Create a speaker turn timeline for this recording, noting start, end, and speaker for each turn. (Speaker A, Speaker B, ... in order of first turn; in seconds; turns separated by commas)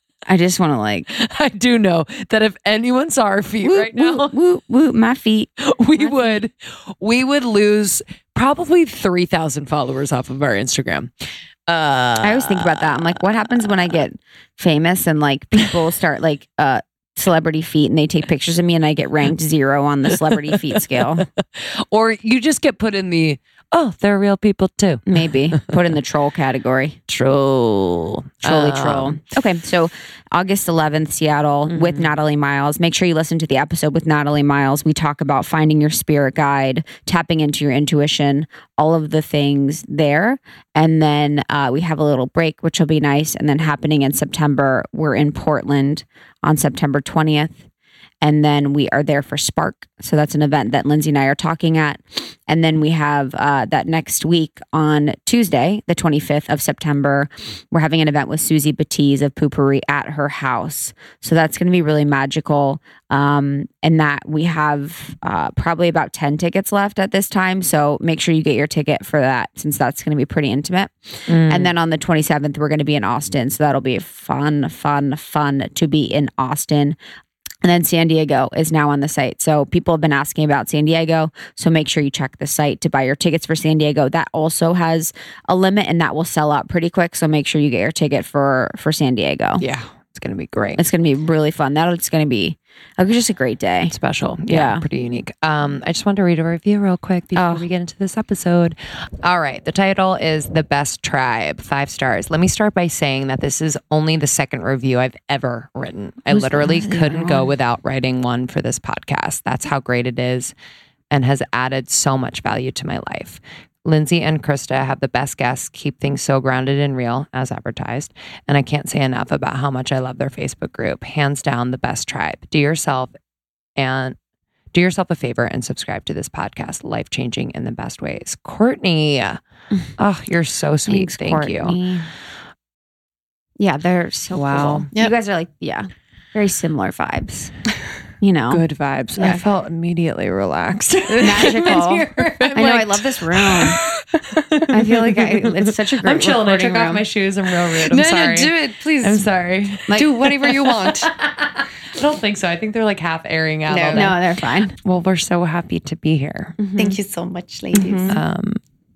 Speaker A: 0.3-1.1, Speaker B: 1.1-4.3, Speaker A: 3.6-6.4, Speaker B: 5.6-11.1, Speaker B: 11.7-14.0, Speaker A: 12.2-21.3, Speaker B: 20.3-25.8, Speaker A: 25.1-27.0, Speaker B: 27.1-29.2, Speaker A: 28.4-47.6, Speaker B: 31.7-32.1, Speaker A: 48.2-77.0, Speaker B: 71.3-71.7, Speaker A: 77.6-89.6, Speaker B: 89.6-90.8, Speaker A: 90.8-93.9, Speaker B: 93.9-110.5, Speaker A: 94.5-94.8, Speaker A: 97.3-97.7, Speaker A: 106.3-107.5, Speaker B: 111.1-123.1, Speaker B: 123.8-124.2, Speaker B: 124.7-129.4, Speaker B: 130.0-131.8, Speaker A: 130.9-132.1, Speaker A: 133.6-137.5, Speaker B: 134.3-134.9, Speaker A: 138.2-138.6, Speaker B: 138.5-154.2, Speaker A: 139.2-139.4, Speaker A: 141.1-143.8, Speaker A: 144.7-147.0, Speaker C: 147.9-149.2, Speaker C: 149.9-151.1, Speaker C: 153.7-154.1, Speaker A: 153.9-154.8, Speaker B: 154.8-156.6, Speaker A: 156.6-157.0, Speaker C: 156.8-158.2, Speaker A: 157.8-158.2, Speaker B: 158.1-158.6